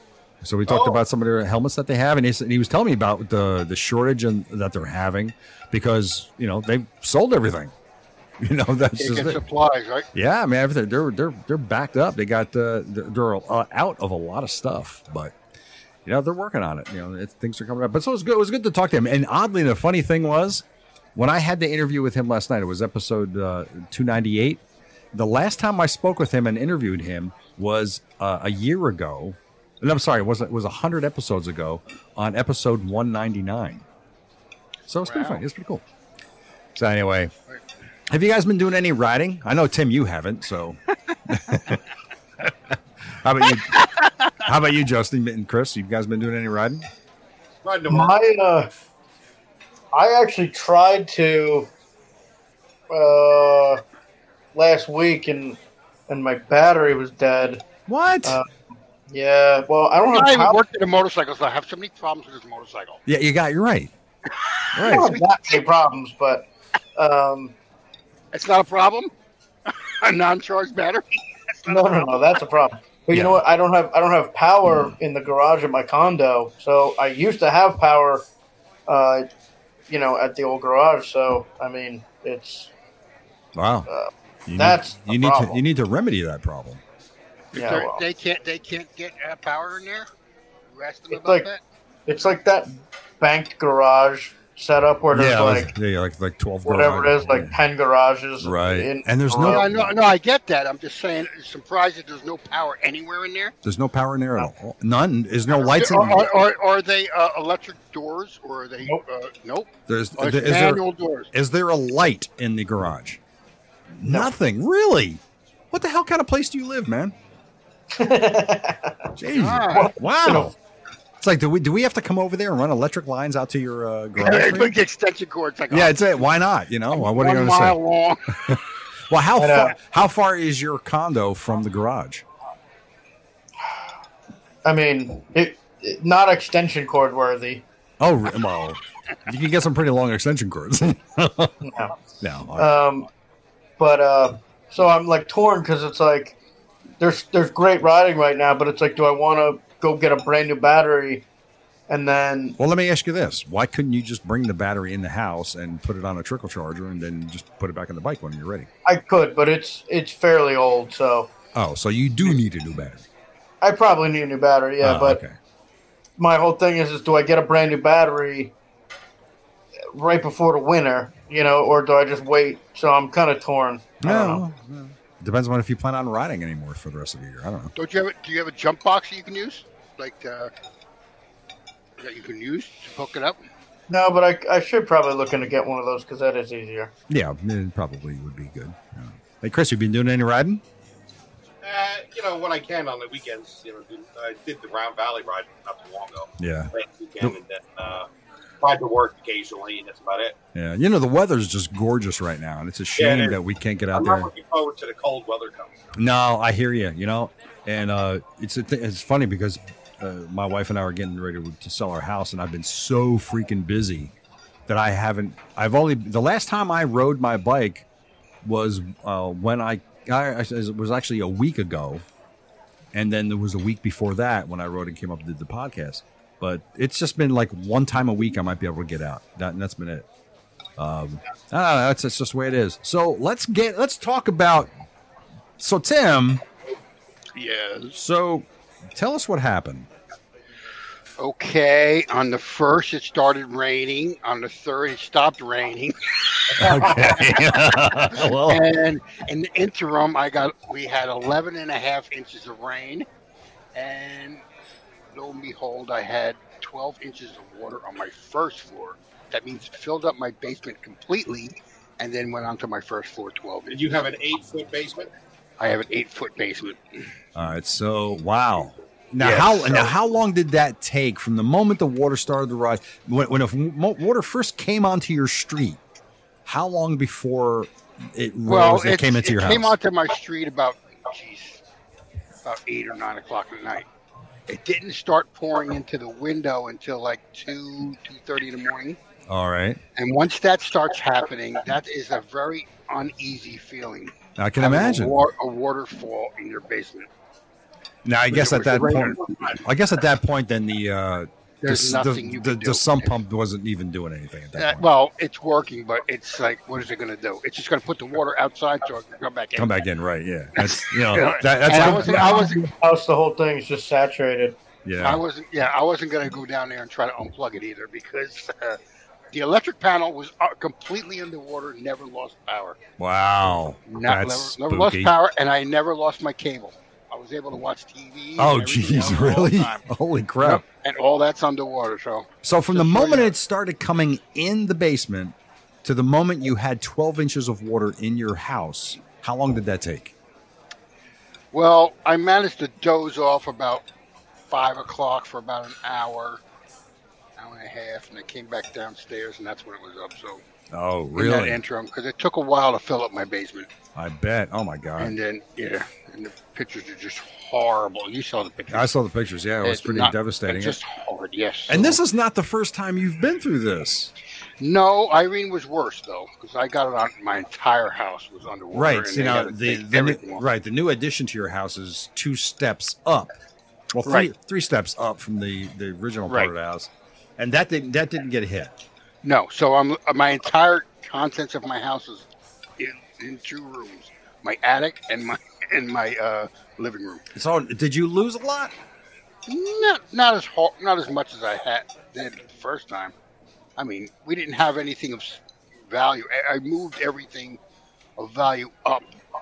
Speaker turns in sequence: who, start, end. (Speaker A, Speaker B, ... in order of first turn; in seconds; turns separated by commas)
Speaker A: 0.4-7.7, Speaker B: 0.7-0.9, Speaker A: 8.4-9.4, Speaker B: 8.9-10.1, Speaker A: 10.1-15.3, Speaker A: 16.0-24.6, Speaker A: 25.1-33.8, Speaker A: 34.9-35.8, Speaker B: 35.0-35.4, Speaker A: 36.8-37.3, Speaker A: 38.1-41.8, Speaker A: 43.2-43.8, Speaker B: 43.7-44.3, Speaker A: 44.4-46.8, Speaker C: 47.6-48.2, Speaker D: 47.9-48.7, Speaker D: 49.9-51.7, Speaker D: 52.9-53.8, Speaker D: 54.5-57.6, Speaker A: 57.9-58.4, Speaker D: 59.1-60.6, Speaker B: 60.1-63.0, Speaker A: 63.0-63.9, Speaker B: 64.3-65.6, Speaker A: 64.7-65.1, Speaker D: 64.8-67.5, Speaker B: 68.3-69.1, Speaker B: 69.7-72.3, Speaker D: 71.7-78.2, Speaker A: 73.1-73.4, Speaker A: 74.6-74.9, Speaker D: 78.9-79.2, Speaker D: 79.9-82.7, Speaker A: 83.5-83.9, Speaker D: 83.9-85.6, Speaker A: 84.5-86.8, Speaker B: 87.5-90.1, Speaker D: 87.5-88.0, Speaker B: 90.7-91.6, Speaker D: 91.1-91.5, Speaker D: 92.1-95.7, Speaker A: 95.1-97.6, Speaker D: 96.6-99.7, Speaker A: 98.4-99.9, Speaker B: 99.4-103.5, Speaker A: 103.6-106.3, Speaker B: 105.5-111.3, Speaker D: 105.7-106.2, Speaker A: 109.9-113.2, Speaker A: 113.9-117.1, Speaker D: 117.9-119.1, Speaker A: 119.2-120.5, Speaker B: 119.3-119.9, Speaker D: 119.7-120.5, Speaker A: 121.2-124.7, Speaker B: 124.2-126.2, Speaker A: 125.7-127.8, Speaker B: 126.9-128.5, Speaker A: 128.4-132.2, Speaker D: 129.4-129.8, Speaker D: 134.6-137.6, Speaker A: 138.0-141.6, Speaker D: 141.6-142.0, Speaker A: 142.2-142.7, Speaker D: 142.6-143.1, Speaker D: 143.8-146.4, Speaker D: 147.0-151.2, Speaker D: 151.9-152.6, Speaker A: 152.6-158.7, Speaker D: 158.8-161.3, Speaker A: 161.5-163.0, Speaker D: 163.6-165.2, Speaker A: 164.8-165.3, Speaker D: 166.2-168.5, Speaker D: 169.9-174.4, Speaker A: 174.0-177.7, Speaker B: 177.8-180.5, Speaker B: 182.0-183.4, Speaker D: 183.9-186.9, Speaker A: 187.1-190.6, Speaker C: 191.6-198.1, Speaker A: 196.4-197.4, Speaker C: 198.6-200.3, Speaker A: 200.5-204.3, Speaker C: 203.0-203.4, Speaker C: 203.9-205.7, Speaker A: 205.9-214.1, Speaker A: 214.7-217.8, Speaker A: 218.4-222.0, Speaker A: 222.9-230.1, Speaker A: 230.8-234.7, Speaker A: 235.6-236.4, Speaker B: 237.3-238.0, Speaker A: 237.9-239.9, Speaker B: 241.2-253.1, Speaker A: 246.6-248.6, Speaker B: 253.7-254.4, Speaker B: 255.1-263.9, Speaker C: 263.7-265.1, Speaker B: 265.6-267.0, Speaker A: 267.3-275.8, Speaker B: 269.2-269.9, Speaker A: 276.4-279.7, Speaker B: 278.4-281.6, Speaker B: 282.4-283.9, Speaker B: 284.5-289.0, Speaker A: 289.3-289.8, Speaker B: 289.9-297.1, Speaker A: 294.4-295.2, Speaker A: 298.0-304.8, Speaker B: 298.3-299.5, Speaker C: 298.9-299.4, Speaker B: 301.6-303.2, Speaker B: 304.5-309.7, Speaker A: 309.6-312.5, Speaker B: 310.6-312.6, Speaker D: 311.8-314.6, Speaker A: 314.8-315.2, Speaker B: 315.0-318.8, Speaker B: 319.3-322.8, Speaker A: 323.0-325.1, Speaker B: 323.9-329.8, Speaker A: 328.4-330.6, Speaker B: 330.4-333.3, Speaker A: 332.4-340.1, Speaker B: 341.5-343.8, Speaker B: 344.5-346.4, Speaker B: 347.4-350.4, Speaker A: 350.7-351.6, Speaker B: 351.1-353.7, Speaker A: 353.9-355.1, Speaker B: 355.0-358.9, Speaker A: 358.7-360.8, Speaker B: 359.6-362.0, Speaker A: 361.7-364.1, Speaker B: 364.6-370.4, Speaker A: 368.7-373.3, Speaker A: 373.9-378.7, Speaker B: 374.0-374.3, Speaker B: 379.2-382.3, Speaker B: 382.8-387.2, Speaker A: 387.3-388.7, Speaker B: 389.5-393.1, Speaker B: 393.8-397.6, Speaker B: 398.2-399.1